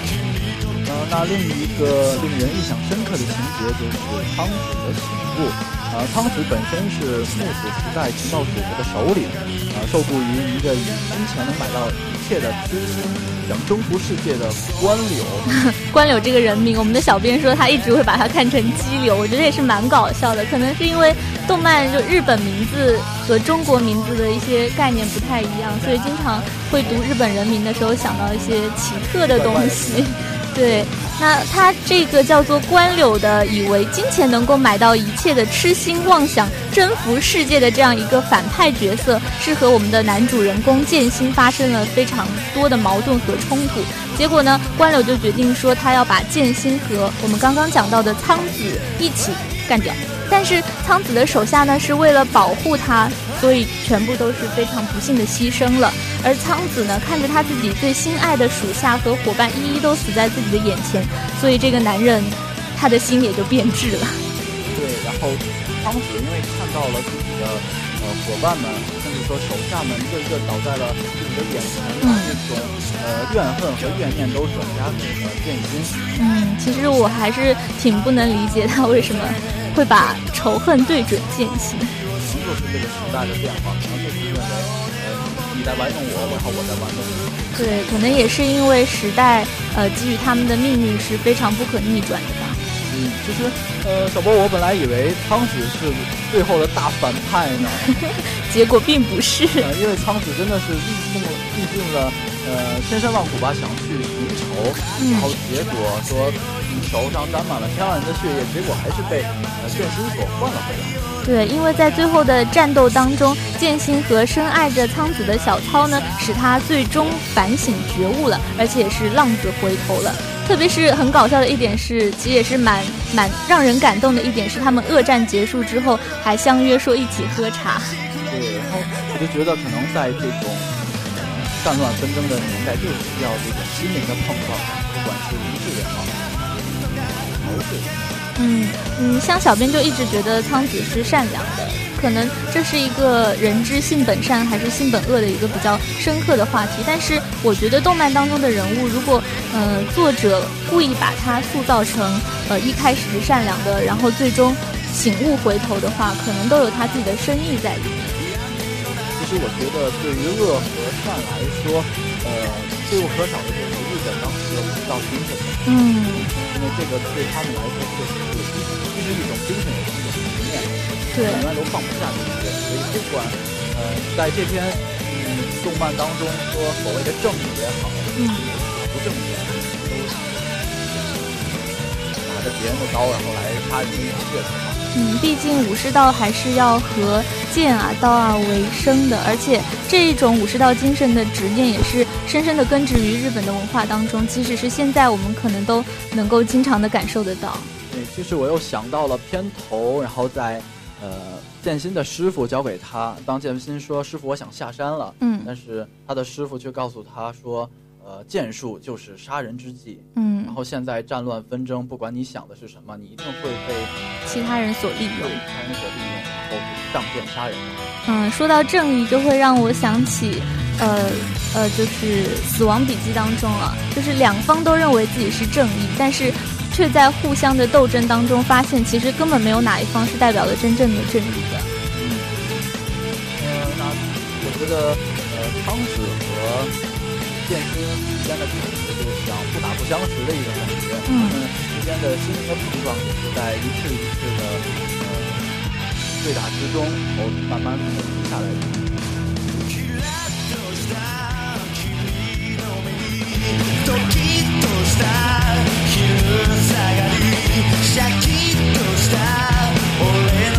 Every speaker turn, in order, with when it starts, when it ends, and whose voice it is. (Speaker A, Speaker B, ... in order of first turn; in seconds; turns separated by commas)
Speaker A: 0.8-15.5, Speaker B: 15.5-64.2, Speaker A: 29.2-30.9, Speaker A: 64.7-75.9, Speaker B: 72.0-72.4, Speaker B: 76.2-82.0, Speaker A: 82.2-88.3, Speaker B: 87.6-92.6, Speaker A: 92.9-97.9, Speaker B: 97.9-99.7, Speaker A: 99.6-111.0, Speaker B: 105.0-105.3, Speaker B: 111.2-128.0, Speaker A: 128.3-138.1, Speaker B: 138.4-158.2, Speaker A: 159.2-165.6, Speaker B: 165.7-166.3, Speaker A: 166.4-184.8, Speaker B: 171.1-171.5, Speaker B: 178.2-178.5, Speaker B: 184.9-197.7, Speaker A: 197.9-217.8, Speaker B: 205.2-205.5, Speaker B: 210.2-210.6, Speaker B: 214.3-215.4, Speaker B: 218.1-231.7, Speaker A: 231.9-232.3, Speaker A: 233.4-236.7, Speaker A: 237.3-245.5, Speaker B: 241.1-241.4, Speaker A: 246.2-248.9, Speaker A: 253.8-254.2, Speaker A: 255.1-255.9